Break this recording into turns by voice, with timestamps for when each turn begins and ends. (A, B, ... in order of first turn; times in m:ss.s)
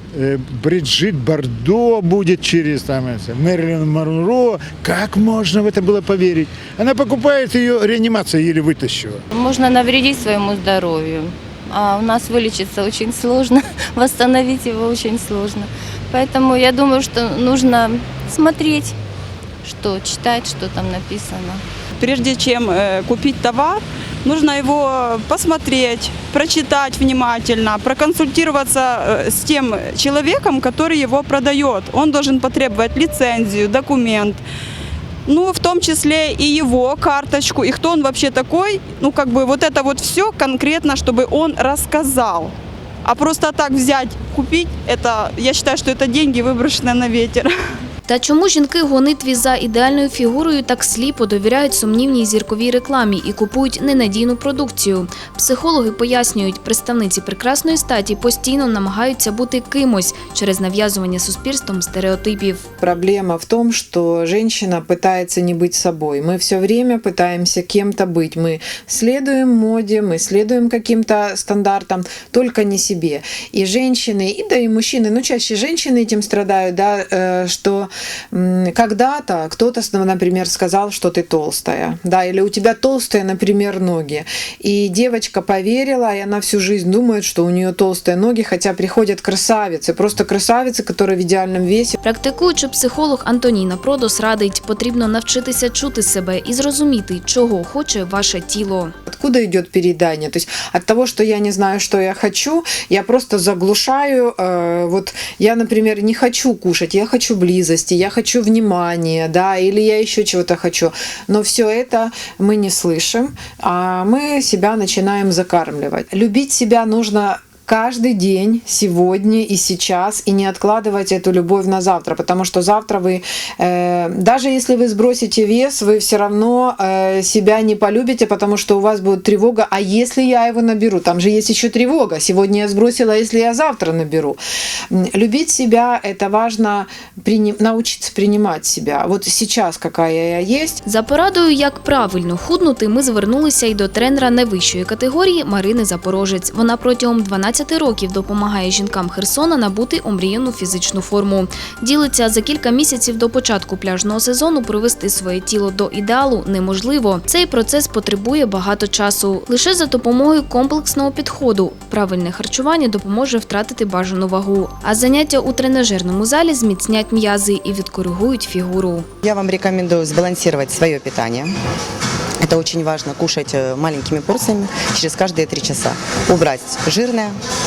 0:00.1-0:09.2 A
0:09.3-0:19.0 B
0:19.6-0:21.6 B
0:22.0-0:34.4 C
0:35.3-0:42.5 C
0:43.0-0:47.5 C
0:48.1-1:02.6 D
1:02.8-1:31.9 E
1:32.0-1:38.9 D
1:39.1-2:14.4 E
2:14.9-2:20.8 E
2:20.9-2:49.1 D
2:49.2-2:51.5 F
2:52.4-2:57.3 F